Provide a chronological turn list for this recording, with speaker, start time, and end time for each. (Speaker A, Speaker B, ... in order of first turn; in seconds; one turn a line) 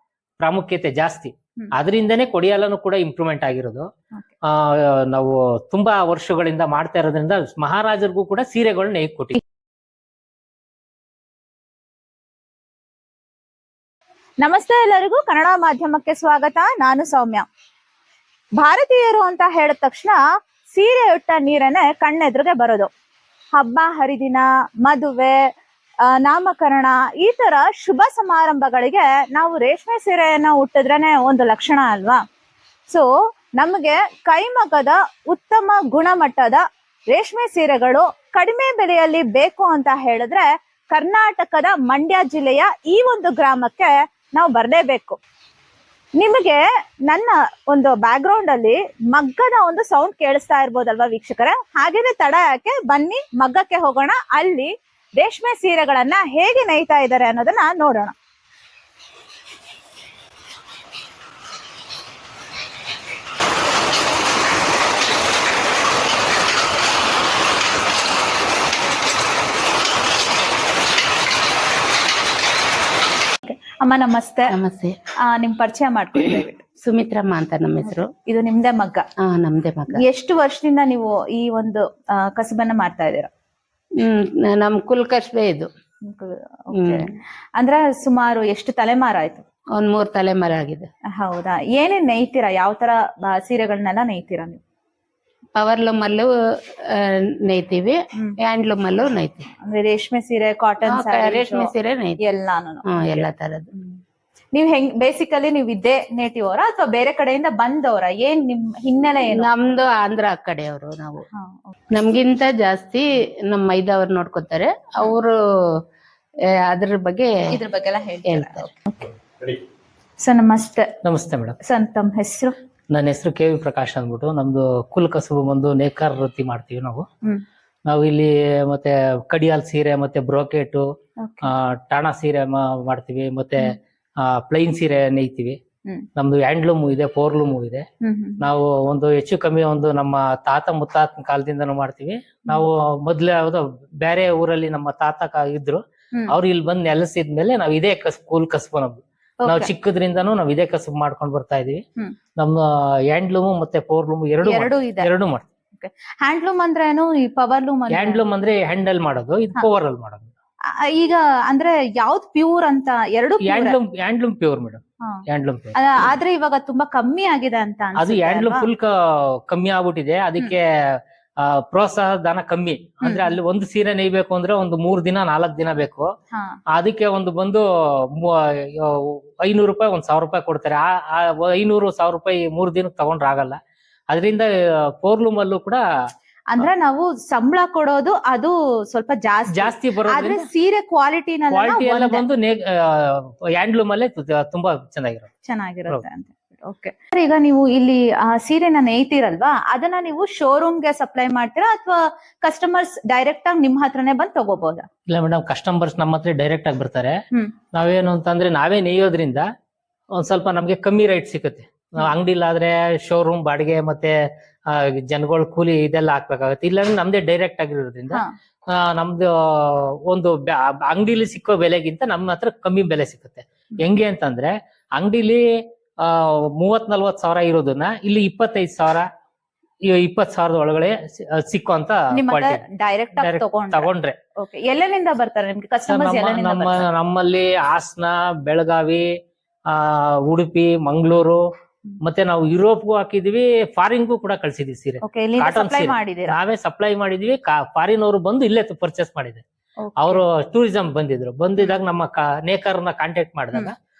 Speaker A: 0.4-3.9
Speaker A: 4.5-9.4
Speaker B: 14.4-17.5
Speaker B: 18.6-20.2
Speaker B: 20.7-22.9
Speaker B: 23.6-25.4
Speaker B: 26.1-32.2
Speaker B: 33.6-45.2
Speaker B: 46.2-58.1
Speaker B: 73.5-74.5
Speaker C: 74.5-75.0
Speaker B: 75.3-76.6
Speaker C: 76.8-78.1
Speaker B: 77.8-79.0
Speaker C: 79.2-80.0
Speaker B: 80.0-83.3
Speaker C: 84.0-85.7
Speaker B: 86.1-89.4
Speaker C: 86.8-87.0
Speaker C: 89.8-90.9
Speaker B: 91.1-94.6
Speaker C: 95.6-99.5
Speaker B: 99.6-101.7
Speaker C: 100.8-102.2
Speaker B: 102.2-104.0
Speaker C: 102.9-103.7
Speaker B: 104.5-109.5
Speaker C: 109.3-111.3
Speaker B: 111.3-111.7
Speaker C: 111.9-115.8
Speaker C: 116.5-117.5
Speaker B: 117.5-119.1
Speaker C: 118.3-118.7
Speaker B: 120.2-120.9
Speaker A: 121.0-121.6
Speaker B: 121.6-122.5
Speaker A: 122.9-127.1
Speaker A: 127.9-130.8
Speaker B: 131.2-131.5
Speaker A: 131.4-135.6
Speaker A: 136.2-137.9
Speaker B: 138.0-138.4
Speaker A: 138.4-151.8
Speaker B: 149.4-149.7
Speaker A: 152.4-155.5
Speaker B: 154.4-155.1
Speaker B: 155.8-158.2
Speaker A: 157.9-160.3
Speaker B: 160.7-163.8
Speaker A: 163.4-165.8
Speaker B: 165.8-168.7
Speaker A: 168.0-168.9
Speaker A: 169.5-176.1
Speaker B: 173.0-173.4
Speaker A: 176.8-183.6
Speaker A: 184.1-184.5
Speaker A: 185.0-185.8
Speaker B: 186.5-192.2
Speaker A: 189.5-190.5
Speaker A: 191.5-195.3
Speaker B: 195.4-204.9
Speaker A: 205.1-207.2
Speaker A: 207.7-209.5
Speaker A: 210.2-214.2
Speaker A: 214.7-225.4
Speaker A: 226.0-229.1
Speaker A: 229.8-232.6
Speaker B: 232.1-236.9
Speaker A: 233.2-234.2
Speaker A: 235.9-239.1
Speaker A: 239.7-241.4
Speaker A: 242.0-249.4
Speaker B: 245.0-246.4
Speaker B: 249.8-250.2
Speaker A: 250.0-253.8